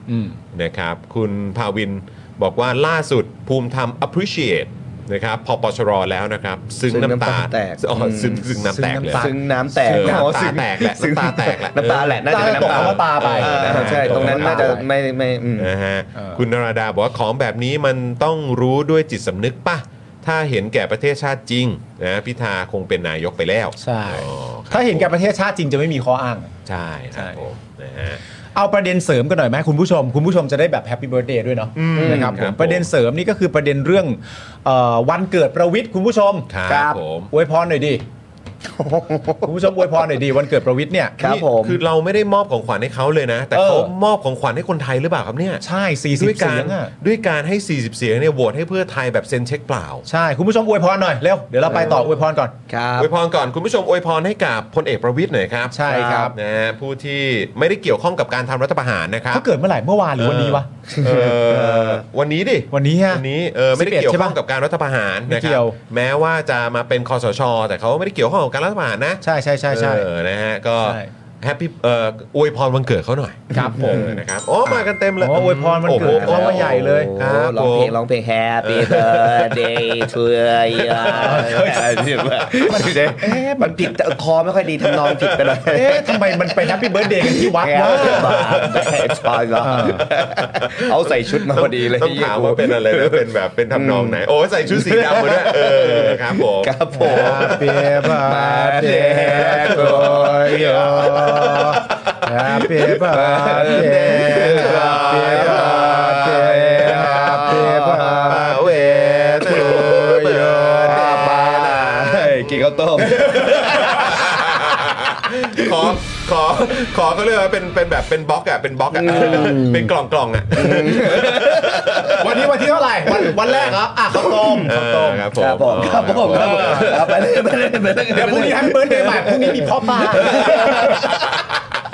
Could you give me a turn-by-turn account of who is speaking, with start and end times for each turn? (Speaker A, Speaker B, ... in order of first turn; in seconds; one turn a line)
Speaker A: 0.1-0.4
Speaker B: 0.5-14.8
Speaker C: 6.9-8.5
Speaker A: 8.6-9.4
Speaker C: 9.1-15.7
Speaker A: 9.9-10.2
Speaker A: 12.3-14.8
Speaker B: 15.6-25.1
Speaker A: 23.8-26.5
Speaker B: 26.7-28.2
Speaker A: 28.6-36.5
Speaker B: 31.8-32.9
Speaker C: 31.9-32.4
Speaker B: 36.5-37.3
Speaker C: 36.7-37.0
Speaker A: 37.3-38.0
Speaker C: 38.7-39.6
Speaker A: 39.4-41.2
Speaker C: 41.2-41.8
Speaker B: 41.2-45.6
Speaker A: 43.5-43.9
Speaker A: 45.6-46.9
Speaker B: 46.2-50.0
Speaker A: 50.1-52.5
Speaker C: 51.7-52.0
Speaker C: 52.7-53.1
Speaker B: 53.0-59.5
Speaker A: 55.7-56.4
Speaker A: 59.3-60.7
Speaker B: 60.2-78.0
Speaker C: 60.9-62.0
Speaker A: 62.7-64.4
Speaker A: 65.3-65.8
Speaker A: 69.2-70.1
Speaker A: 70.8-71.1
Speaker A: 73.5-74.1
Speaker C: 73.5-74.2
Speaker A: 74.7-77.1
Speaker C: 75.9-101.9
Speaker B: 78.6-80.1
Speaker B: 80.7-82.9
Speaker A: 81.2-82.1
Speaker A: 82.6-83.9
Speaker B: 85.0-85.6
Speaker A: 85.6-88.4
Speaker B: 87.9-97.7
Speaker A: 89.6-90.1
Speaker A: 97.0-111.1
Speaker B: 99.2-102.1
Speaker C: 102.9-114.6
Speaker B: 103.3-107.6
Speaker B: 108.3-122.5
Speaker A: 113.6-114.3
Speaker C: 115.6-115.9
Speaker C: 118.9-119.9
Speaker A: 119.1-119.5
Speaker C: 120.6-122.1
Speaker A: 122.0-125.3
Speaker B: 123.4-123.8
Speaker C: 124.3-124.7
Speaker B: 124.6-127.4
Speaker C: 125.3-131.5
Speaker A: 126.3-127.1
Speaker A: 128.1-131.2
Speaker B: 130.2-131.4